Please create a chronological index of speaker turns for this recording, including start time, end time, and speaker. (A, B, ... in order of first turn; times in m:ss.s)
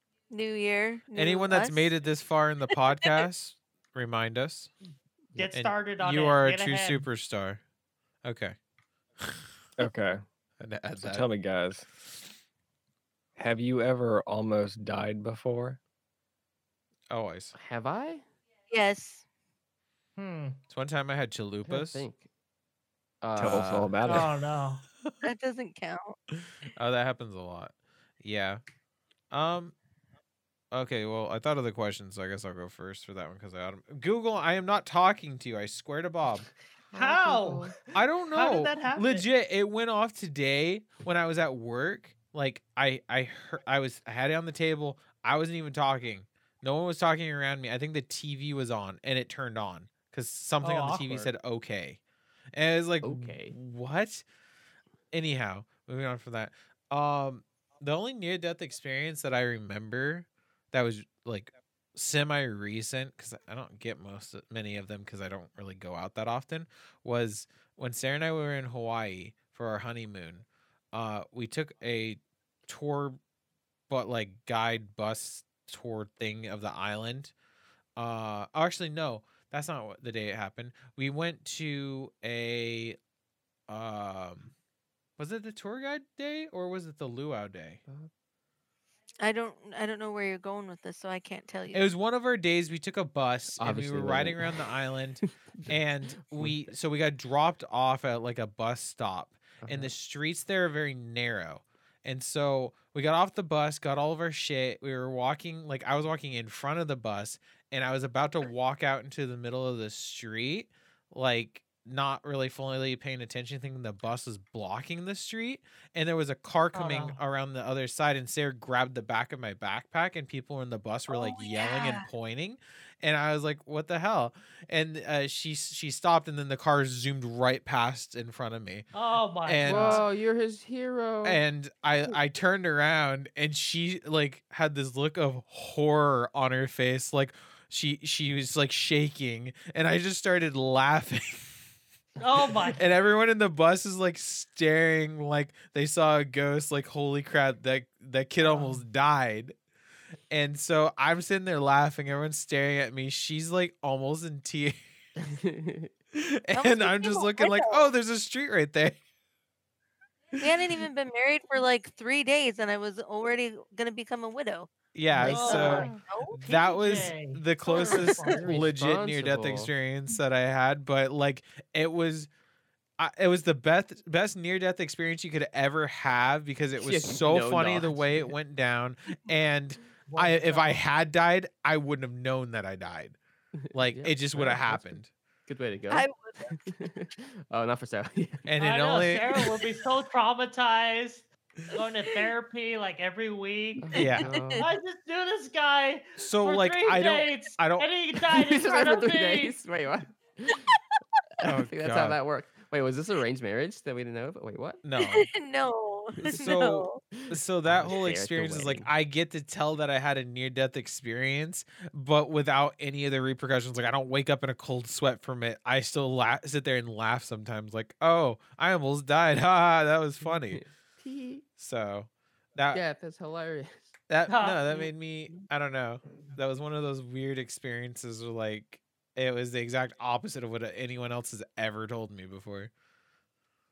0:00.3-0:01.9 A
0:01.1-0:04.7 B
0:05.3-0:07.1 C
0:05.5-0:07.6 B
0:08.2-0:08.6 B
0:09.8-0:10.2 D
0:10.6-0:11.3 B
0:11.0-0:11.8 D
0:13.4-0:15.8 D
0:17.1-0:17.5 B
0:17.5-0:18.2 E
0:18.7-0:19.2 A
0:20.2-0:20.6 C
0:20.7-0:22.0 B
0:21.6-0:22.3 E
0:23.2-0:23.9 E
0:23.4-0:24.3 D
0:23.4-0:24.0 B
0:24.0-0:24.8 C
0:25.2-0:26.2 A
0:26.6-0:28.6 B
0:29.3-0:29.7 B
0:30.7-0:36.5 B
0:36.9-0:37.8 E
0:36.9-0:37.8 C
0:37.9-0:52.0 B
0:38.3-0:39.2 C
0:50.6-0:51.3 C
0:52.5-0:54.2 B
0:53.0-0:53.5 E
0:55.1-1:13.2 B
1:13.9-1:17.3 B
1:18.0-1:23.0 B
1:23.7-1:24.5 B
1:25.2-1:27.8 B
1:29.2-1:31.9 A
1:31.7-2:08.9 B
1:33.6-1:34.7 E
1:36.4-1:36.7 E
1:39.6-1:39.9 E
1:56.7-1:57.2 C
2:01.1-2:02.1 A
2:08.9-2:10.0 C
2:09.4-2:10.1 B
2:09.6-2:11.4 E
2:11.2-2:21.6 B
2:22.2-2:22.8 C
2:22.7-2:29.6 B
2:28.4-2:28.8 C
2:30.3-2:34.8 B
2:35.2-2:35.9 E
2:36.1-2:39.0 B
2:36.5-2:37.9 A
2:40.4-2:44.8 A
2:40.4-2:40.8 B
2:44.9-2:52.3 B
2:45.1-2:46.0 C
2:45.3-2:46.9 A
2:46.8-2:48.7 C
2:47.7-2:48.4 A
2:48.4-2:49.7 E
2:53.0-3:03.2 B
2:56.8-2:58.3 E
3:00.1-3:00.8 C
3:03.6-3:08.5 E
3:03.7-3:05.1 B
3:05.9-3:06.6 A
3:08.4-3:09.3 B
3:08.6-3:13.9 C
3:13.8-3:14.7 E
3:13.9-3:14.7 A
3:13.9-3:14.3 B
3:14.6-3:19.6 C
3:16.2-3:17.9 B
3:18.3-3:20.8 E
3:20.6-3:20.9 A
3:21.4-3:24.8 E
3:21.4-3:22.2 B
3:24.8-3:25.3 B
3:25.0-3:27.0 A
3:26.2-3:26.6 E
3:26.3-3:40.6 B
3:27.1-3:28.9 E
3:40.2-3:41.4 E
3:41.6-3:42.8 B
3:42.7-3:43.9 E
3:44.1-3:52.7 B
3:44.2-3:44.6 C
3:44.7-3:45.5 E